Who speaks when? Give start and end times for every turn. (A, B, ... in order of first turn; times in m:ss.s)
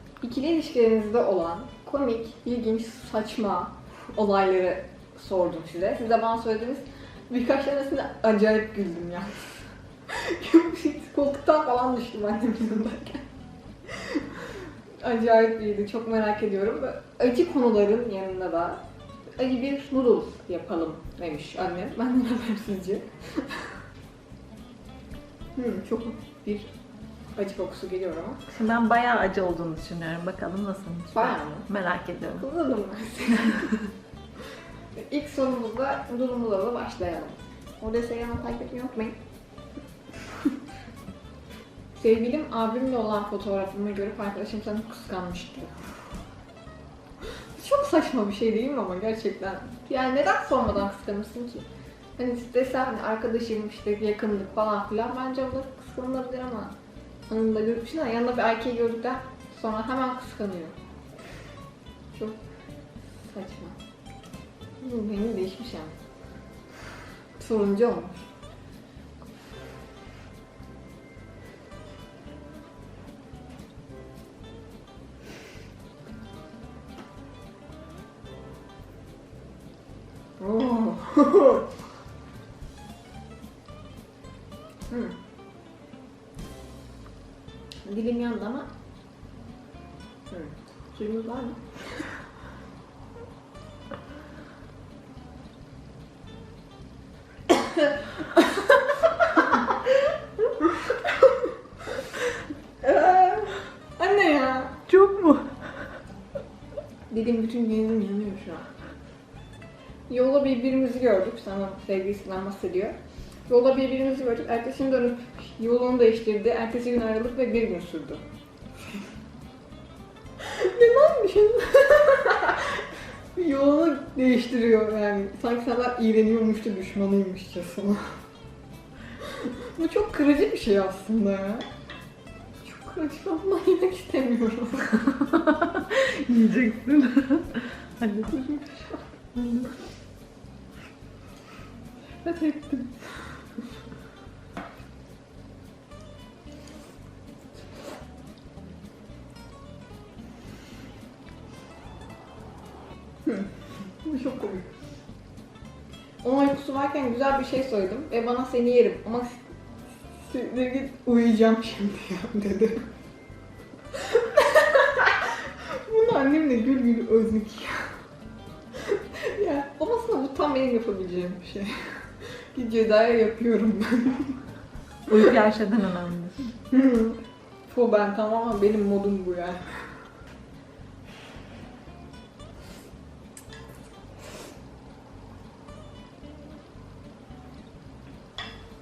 0:00.2-0:13.2 A
0:13.9-0:18.8 A
0:19.4-0:23.7 A
0:25.5-0:26.7 A
0:27.4-0:28.4 A
0:28.5-0:32.4 B
0:31.1-0:31.7 A
0:32.4-0:33.8 A
0:33.4-0:33.8 B
0:35.0-0:39.2 A
0:41.9-0:45.7 A
0:47.5-0:56.7 A
0:57.3-1:00.8 A
1:02.1-1:02.4 A
1:03.2-1:03.8 A
1:04.8-1:05.9 A
1:07.4-1:08.3 A
1:20.4-1:21.7 A
1:24.9-1:25.2 A
1:27.8-1:28.7 A
1:30.3-1:32.1 A
1:37.5-1:42.2 A
1:42.8-1:44.8 A
1:44.9-1:45.6 B
1:47.1-1:48.7 A
1:50.1-1:53.0 A
1:53.5-1:58.2 A
2:00.4-2:08.1 A
2:09.2-2:11.6 A
2:12.6-2:15.0 A
2:15.0-2:18.3 B
2:18.3-2:19.1 A
2:19.3-2:19.7 B
2:22.2-2:23.1 A
2:33.2-2:34.7 A
2:36.2-2:39.6 A
2:40.1-2:42.9 A
2:43.9-2:47.9 A
2:48.8-2:54.4 A
2:55.1-2:56.5 B
2:56.7-2:59.6 A